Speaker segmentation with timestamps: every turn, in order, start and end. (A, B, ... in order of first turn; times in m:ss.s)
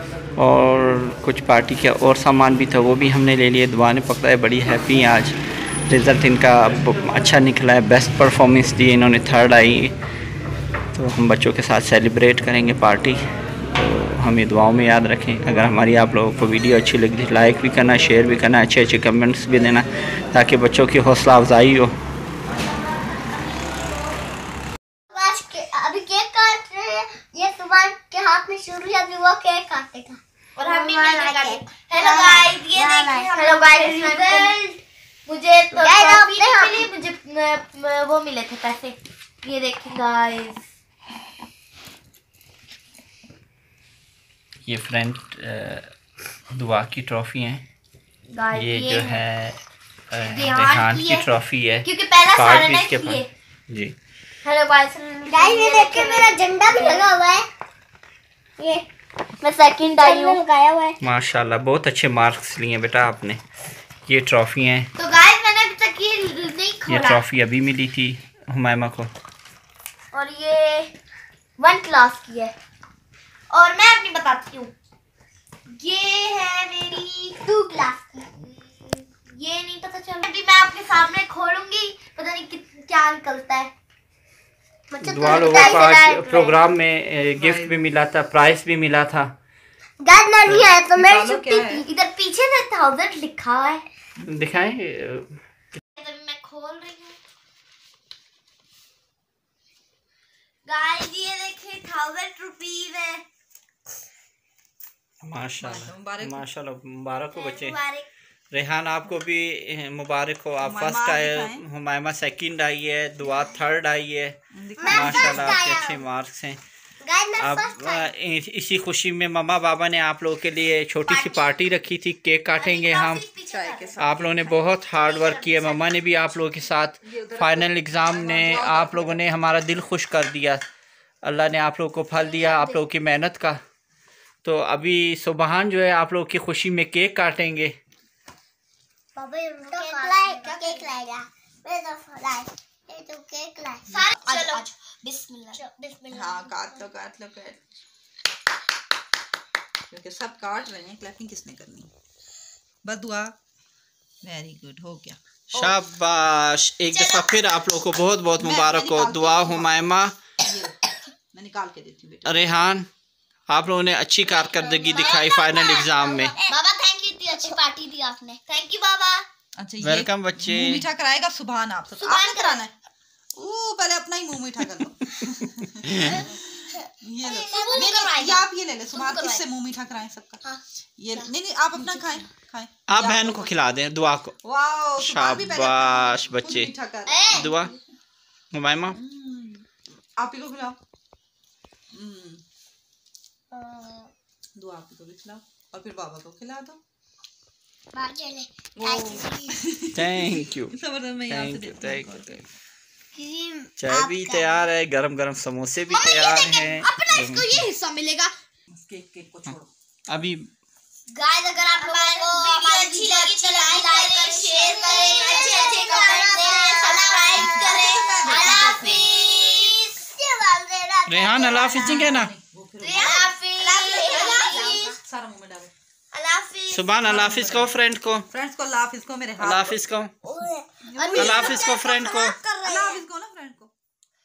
0:00.4-0:09.9 A
0:11.0-0:13.2 A
0:13.7-0:22.0 A
0:23.0-0:23.8 B
0:25.1-0:34.6 B
0:30.6-0:40.6 C
0:35.7-0:36.9 B
0:44.6-0:45.9 A
0:46.5-0:47.6 A
0:48.3-0:49.2 C
0:48.5-0:49.6 A
0:50.1-0:53.9 A
0:50.3-0:51.3 C
0:51.8-0:53.3 C
0:54.4-0:57.1 C
0:55.3-0:57.5 B
0:58.6-0:58.8 B
0:59.4-1:00.4 C
1:00.0-1:01.0 B
1:01.0-1:03.4 A
1:04.1-1:04.9 A
1:05.0-1:07.2 C
1:06.9-1:09.1 A
1:10.1-1:10.9 C
1:11.6-1:12.5 C
1:13.5-1:14.7 C
1:15.7-1:23.7 C
1:17.5-1:17.9 B
1:25.0-1:26.0 B
1:25.0-1:29.3 A
1:25.2-1:26.6 C
1:27.4-1:27.8 D
1:30.0-1:31.4 B
1:30.4-1:30.7 A
1:30.8-1:31.9 D
1:31.4-1:33.8 C
1:34.3-1:35.8 A
1:36.0-1:37.2 C
1:40.7-1:43.2 C
1:45.2-1:47.8 A
1:45.6-1:46.5 D
1:47.3-1:48.1 C
1:48.5-1:54.4 A
1:50.6-1:51.6 D
1:54.5-1:55.7 D
1:54.8-1:56.0 B
1:54.9-1:56.6 A
1:57.0-1:58.1 B
1:57.4-2:03.3 A
2:01.1-2:01.6 C
2:02.6-2:05.9 C
2:03.5-2:04.6 D
2:04.0-2:10.6 A
2:07.0-2:09.2 D
2:11.2-2:13.6 A
2:12.2-2:12.8 C
2:14.4-2:17.7 A
2:19.2-2:24.0 B
2:19.7-2:20.9 C
2:23.9-2:24.6 D
2:23.9-2:25.6 C
2:25.5-2:26.8 B
2:26.1-2:27.6 D
2:29.9-2:31.9 D
2:32.8-2:33.4 D
2:34.2-2:35.8 D
2:35.5-2:40.2 A
2:38.4-2:39.8 D
2:40.4-2:42.6 D
2:42.2-2:42.9 A
2:43.5-2:46.4 A
2:44.3-2:49.3 C
2:49.6-2:52.7 D
2:49.8-2:50.8 A
2:52.0-2:52.6 C
2:53.4-3:00.4 D
2:55.9-2:56.2 A
2:57.3-2:59.4 C
2:57.4-2:57.9 B
3:01.0-3:03.5 D
3:02.9-3:04.4 A
3:04.4-3:07.4 D
3:05.0-3:06.7 A
3:07.1-3:07.7 C
3:07.3-3:07.7 A
3:08.5-3:09.0 A
3:08.9-3:09.6 D
3:10.2-3:10.8 D
3:11.9-3:12.4 D
3:13.5-3:14.1 B
3:14.6-3:16.8 D
3:17.9-3:19.5 B
3:18.8-3:22.4 D
3:19.9-3:20.8 A
3:21.3-3:22.4 A
3:23.3-3:24.5 C
3:23.8-3:27.7 A
3:25.9-3:28.3 C
3:28.7-3:29.7 D
3:30.1-3:30.5 A
3:31.2-3:40.0 C
3:31.8-3:42.2 B
3:35.7-3:39.1 D
3:41.1-3:42.3 A
3:41.7-3:45.7 D
3:42.8-3:45.0 C
3:43.7-3:44.7 B
3:46.1-3:47.1 C
3:46.7-3:48.3 A
3:47.0-3:47.7 D
3:48.3-3:49.8 D
3:49.4-3:50.1 A
3:50.2-3:50.7 B
3:50.8-3:51.8 D
3:51.0-3:52.5 C
3:51.1-3:52.4 A
3:51.7-3:53.0 B
3:52.6-3:53.7 D